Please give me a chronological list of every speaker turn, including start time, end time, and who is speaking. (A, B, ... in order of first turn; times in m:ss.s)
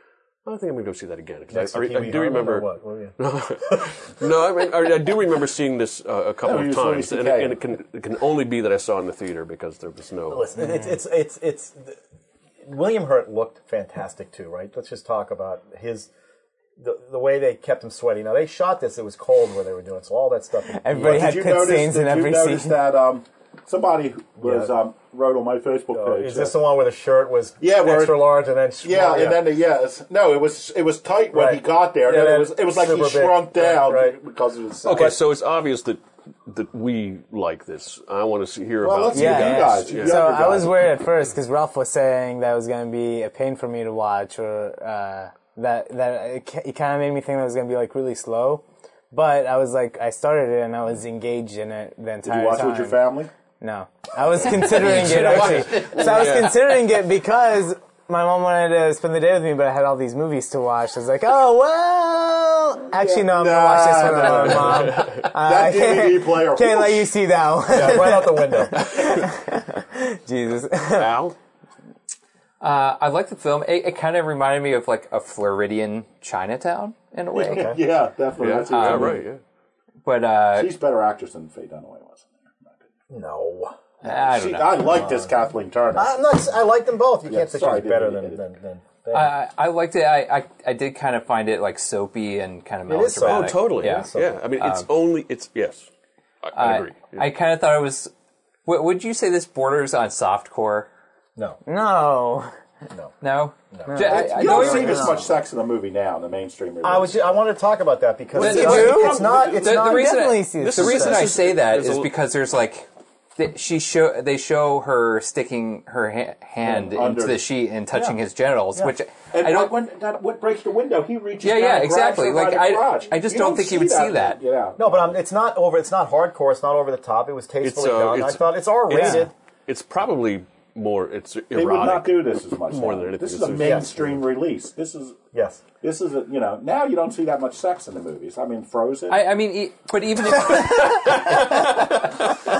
0:00.4-0:10.5 A
0:01.5-0:03.1 B
0:06.4-0:07.6 C
0:10.3-0:12.0 B
0:12.6-0:16.1 B
0:16.8-0:21.0 B
0:20.7-0:22.8 D
0:20.9-0:26.6 C
0:24.4-0:24.7 B
0:25.9-0:29.4 B
0:27.6-0:35.2 C
0:31.3-0:34.2 B
0:34.8-0:40.4 A
0:38.8-0:40.8 C
0:39.1-0:53.0 D
0:52.2-0:53.3 C
0:53.6-1:11.2 D
0:54.5-0:56.5 E
0:54.6-0:56.6 A
1:02.9-1:07.1 C
1:04.6-1:05.2 A
1:07.7-1:08.8 B
1:10.9-1:11.4 A
1:12.6-1:17.8 E
1:17.3-1:19.2 C
1:17.4-1:17.8 B
1:18.4-1:19.4 A
1:18.7-1:19.2 E
1:20.0-1:20.7 E
1:20.5-1:22.8 C
1:23.1-1:23.8 B
1:24.0-1:25.0 E
1:24.0-1:26.2 C
1:24.9-1:25.2 B
1:25.9-1:29.4 B
1:27.2-1:28.4 C
1:29.1-1:34.9 E
1:32.9-1:34.4 B
1:33.2-1:35.9 A
1:36.4-1:37.3 A
1:36.5-1:38.1 E
1:38.6-1:40.9 E
1:41.6-1:42.5 D
1:43.2-1:45.2 E
1:43.7-1:45.2 B
1:43.9-1:44.2 D
1:44.0-1:47.2 C
1:46.8-1:50.2 B
1:48.4-1:59.7 E
1:48.4-1:49.6 A
1:48.4-1:49.2 D
1:49.8-1:51.2 D
1:50.6-1:52.1 A
1:56.6-1:57.4 C
1:59.3-2:05.1 C
2:01.4-2:04.4 E
2:04.8-2:09.3 B
2:07.6-2:14.2 A
2:08.9-2:09.2 D
2:11.5-2:15.2 C
2:13.6-2:13.9 B
2:15.3-2:15.6 B
2:15.8-2:19.4 C
2:19.1-2:22.0 E